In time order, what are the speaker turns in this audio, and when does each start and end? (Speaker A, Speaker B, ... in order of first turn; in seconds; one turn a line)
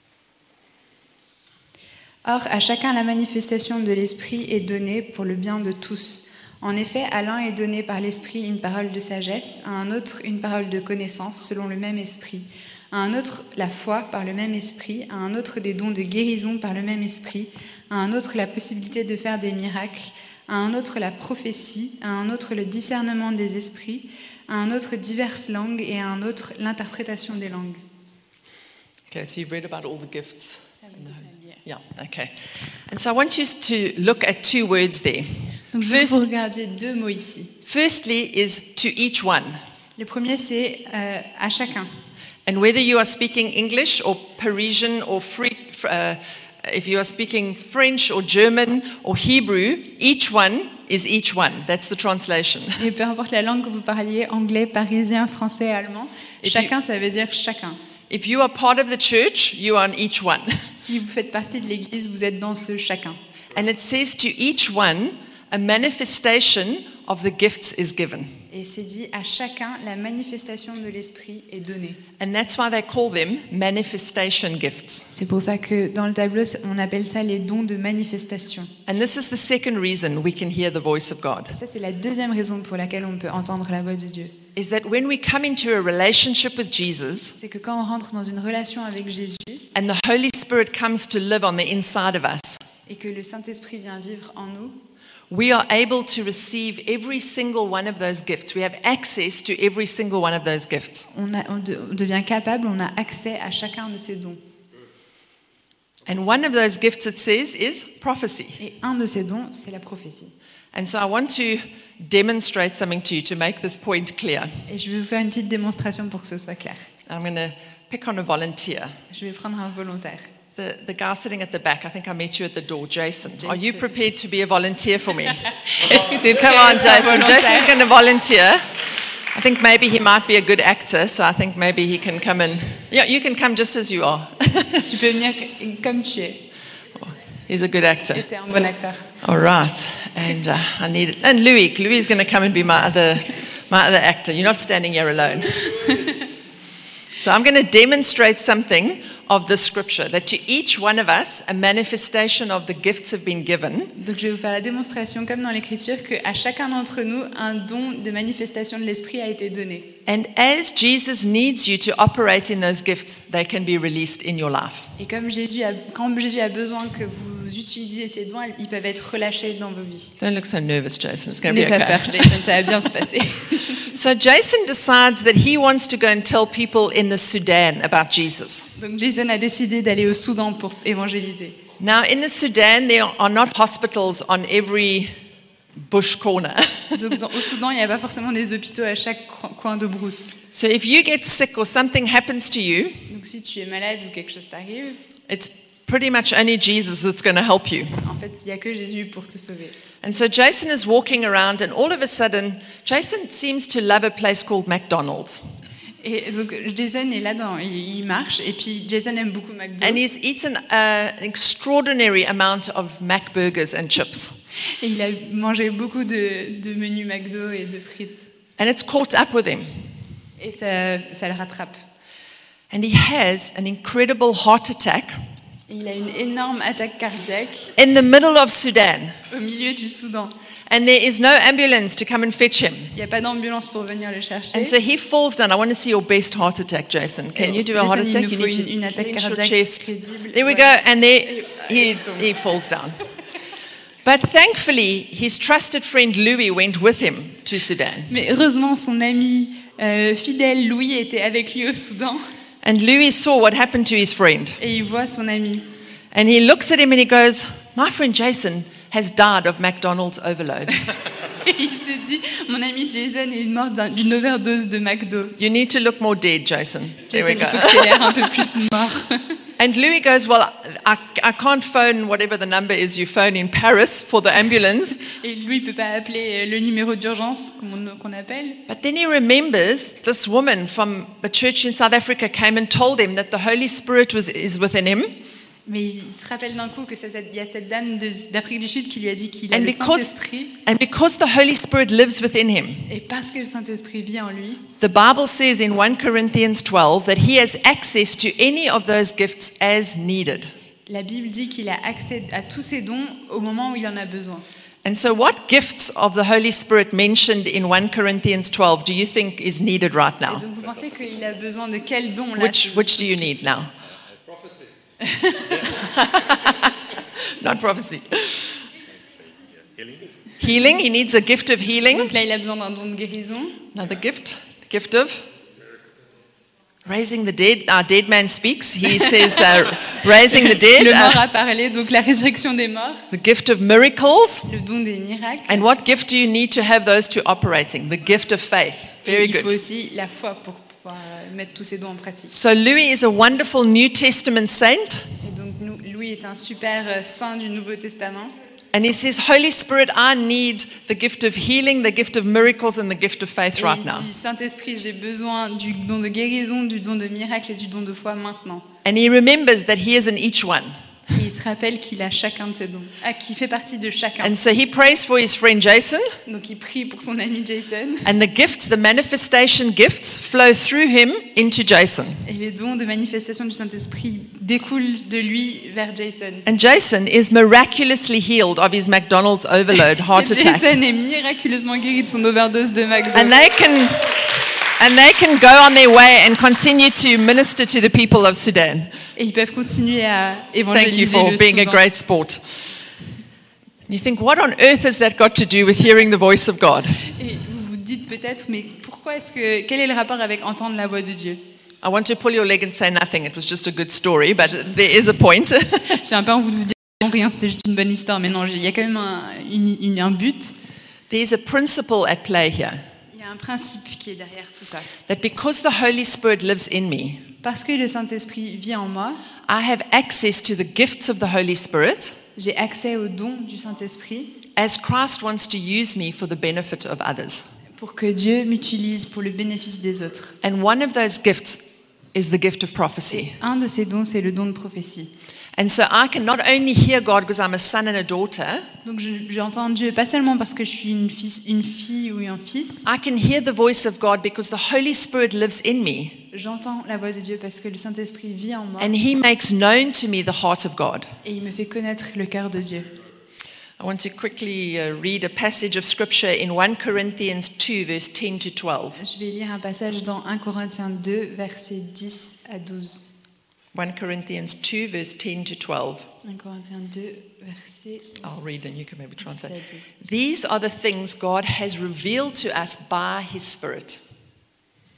Speaker A: 2.2-27.8
Speaker B: 29.1-31.1
Speaker A: 30.8-31.6
Speaker B: 31.6-36.2
Speaker A: 35.7-37.5
Speaker B: 37.6-39.6
Speaker A: 40.0-41.9
Speaker B: 42.5-52.9
Speaker A: 52.8-57.8
Speaker B: 56.4-56.7
Speaker B: 58.1-60.7
Speaker A: 60.8-63.2
Speaker B: 63.5-68.4
Speaker A: 68.5-72.0
Speaker B: 72.2-75.1
Speaker A: 75.1-78.7
Speaker B: 78.9-81.5
Speaker A: 81.5-84.3
Speaker B: 84.5-87.3
Speaker A: 87.3-89.6
Speaker B: 89.7-92.6
Speaker A: 92.9-94.8
Speaker B: 95.3-101.1
Speaker A: 101.1-104.4
Speaker B: 106.1-108.6
Speaker A: 108.6-110.3
Speaker B: 110.7-114.6
Speaker A: 114.7-116.9
Speaker B: 117.1-119.0
Speaker A: 119.1-120.3
Speaker B: 120.5-128.6
Speaker A: 123.4-123.9
Speaker A: 125.7-127.8
Speaker B: 129.3-134.9
Speaker A: 134.8-136.4
Speaker B: 136.9-138.2
Speaker A: 138.1-139.1
Speaker B: 139.2-145.9
Speaker A: 145.7-146.2
Speaker B: 147.2-153.9
Speaker A: 153.9-159.9
Speaker B: 160.1-164.9
Speaker A: 165.0-170.2
Speaker B: 170.2-172.6
Speaker A: 171.4-173.9
Speaker B: 173.9-178.7
Speaker A: 178.8-181.6
Speaker B: 181.8-185.1
Speaker B: 185.8-187.0
Speaker A: 186.9-190.4
Speaker B: 190.5-193.1
Speaker A: 193.1-195.0
Speaker B: 195.3-198.0
Speaker A: 198.0-199.8
Speaker B: 200.0-205.4
Speaker A: 206.0-210.0
Speaker B: 209.8-214.4
Speaker A: 214.8-218.3
Speaker B: 218.6-219.8
Speaker A: 220.4-221.8
Speaker B: 222.7-225.2
Speaker A: 225.7-227.7
Speaker B: 227.8-229.2
Speaker A: 229.3-230.3
Speaker B: 230.7-232.9
Speaker A: 232.9-234.8
Speaker B: 234.5-243.0
Speaker A: 237.3-240.8
Speaker A: 241.4-242.2
Speaker B: 244.0-248.1
Speaker A: 248.1-252.2
Speaker B: 252.6-254.6
Speaker A: 254.6-255.7
Speaker B: 256.1-260.8
Speaker A: 261.4-265.4
Speaker B: 265.4-268.3
Speaker A: 267.1-269.3
Speaker B: 269.6-275.0
Speaker A: 275.0-278.6
Speaker B: 278.7-285.1
Speaker A: 285.6-290.6
Speaker B: 289.5-292.9
Speaker A: 292.9-294.7
Speaker B: 294.8-300.5
Speaker A: 300.9-304.4
Speaker B: 304.8-310.4
Speaker A: 310.3-313.5
Speaker B: 312.4-313.7
Speaker A: 315.0-315.7
Speaker B: 315.6-318.7
Speaker B: 320.4-322.1
Speaker A: 321.9-323.6
Speaker B: 323.7-325.3
Speaker B: 326.8-331.2
Speaker A: 328.9-333.1
Speaker B: 333.1-334.5
Speaker A: 334.5-335.6
Speaker B: 335.5-339.6
Speaker A: 339.1-342.3
Speaker B: 342.3-345.1
Speaker A: 345.2-348.3
Speaker B: 348.7-354.1
Speaker A: 353.6-358.7
Speaker B: 358.8-360.7
Speaker A: 361.1-364.3
Speaker B: 364.2-366.2
Speaker A: 366.2-368.1
Speaker B: 368.0-372.2
Speaker A: 372.2-376.4
Speaker B: 376.4-380.7
Speaker A: 380.1-383.3
Speaker B: 383.1-388.9
Speaker A: 389.1-391.8
Speaker B: 390.7-392.6
Speaker B: 393.9-397.0
Speaker A: 397.1-401.4
Speaker B: 401.8-406.0
Speaker A: 405.9-410.5
Speaker B: 411.1-412.8
Speaker A: 413.1-414.9
Speaker B: 415.1-417.3
Speaker A: 417.4-419.2
Speaker B: 419.4-422.2
Speaker A: 422.4-424.4
Speaker B: 424.6-427.5
Speaker A: 427.8-430.4
Speaker B: 430.4-433.4
Speaker A: 433.2-435.1
Speaker B: 435.6-438.7
Speaker A: 438.8-442.8
Speaker B: 442.8-446.2
Speaker A: 446.3-448.9
Speaker B: 448.8-451.1
Speaker A: 451.2-452.9
Speaker B: 453.8-459.0
Speaker A: 459.0-463.1
Speaker B: 463.7-466.1
Speaker A: 466.2-468.2
Speaker B: 468.2-474.0
Speaker A: 469.2-469.9